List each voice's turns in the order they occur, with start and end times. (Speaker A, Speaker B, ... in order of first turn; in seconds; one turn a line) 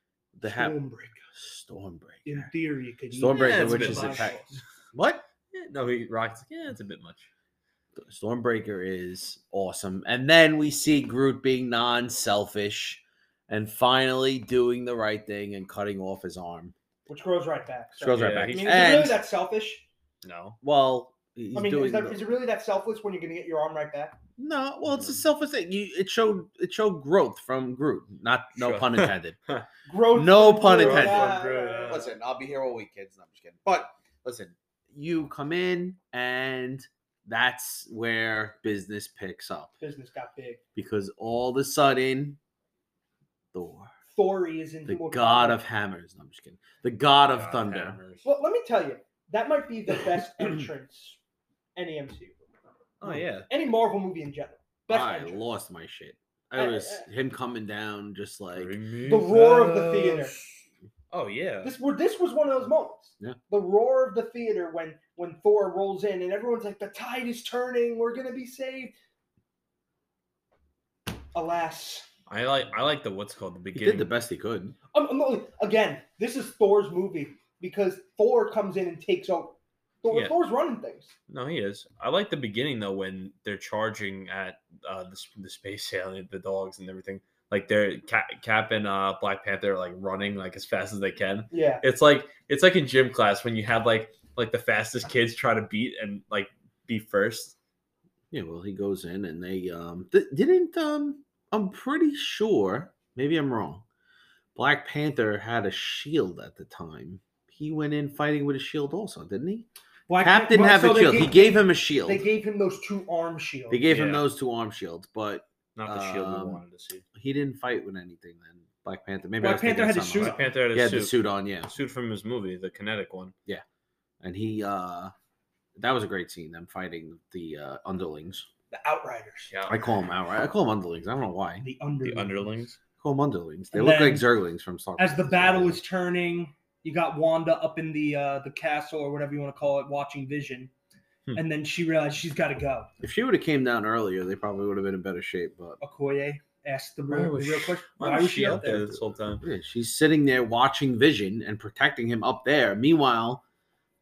Speaker A: 0.3-0.8
Speaker B: 0.5-1.2
Speaker A: 1.3-2.5
Speaker B: 2.2-4.6
Speaker A: 3.1-5.2
Speaker C: 3.3-4.3
Speaker C: 5.5-7.3
Speaker A: 8.0-16.7
Speaker B: 17.1-19.8
Speaker A: 18.0-19.2
Speaker C: 18.1-18.8
Speaker C: 20.2-20.6
Speaker A: 20.6-22.3
Speaker B: 21.5-24.2
Speaker A: 24.4-29.4
Speaker C: 28.6-29.6
Speaker B: 29.9-32.1
Speaker A: 30.1-39.7
Speaker C: 30.7-32.1
Speaker B: 39.8-40.6
Speaker A: 40.8-42.4
Speaker A: 43.5-43.9
Speaker B: 44.1-45.6
Speaker A: 44.9-48.0
Speaker C: 47.3-48.2
Speaker B: 48.2-51.2
Speaker B: 51.8-52.4
Speaker C: 53.0-53.5
Speaker B: 53.5-55.4
Speaker A: 54.9-58.7
Speaker B: 56.5-57.0
Speaker C: 58.5-60.6
Speaker B: 59.0-60.3
Speaker C: 61.1-61.7
Speaker B: 61.6-68.9
Speaker B: 71.3-72.0
Speaker C: 72.3-74.1
Speaker A: 73.7-74.8
Speaker B: 74.9-81.1
Speaker C: 81.3-97.5
Speaker B: 91.5-91.8
Speaker A: 98.3-103.8
Speaker A: 104.5-109.7
Speaker B: 110.1-113.8
Speaker A: 110.2-112.2
Speaker A: 113.7-116.6
Speaker C: 113.9-114.2
Speaker C: 115.7-117.0
Speaker A: 117.1-121.7
Speaker B: 119.4-120.4
Speaker C: 120.2-123.3
Speaker A: 124.2-125.1
Speaker A: 125.8-128.5
Speaker B: 128.7-129.5
Speaker C: 129.5-129.8
Speaker A: 129.7-131.6
Speaker B: 131.6-132.5
Speaker C: 132.0-132.8
Speaker A: 133.0-135.8
Speaker B: 133.7-134.2
Speaker B: 135.0-140.7
Speaker B: 141.3-142.9
Speaker A: 143.0-145.8
Speaker B: 145.8-148.9
Speaker C: 147.1-149.4
Speaker A: 149.4-153.4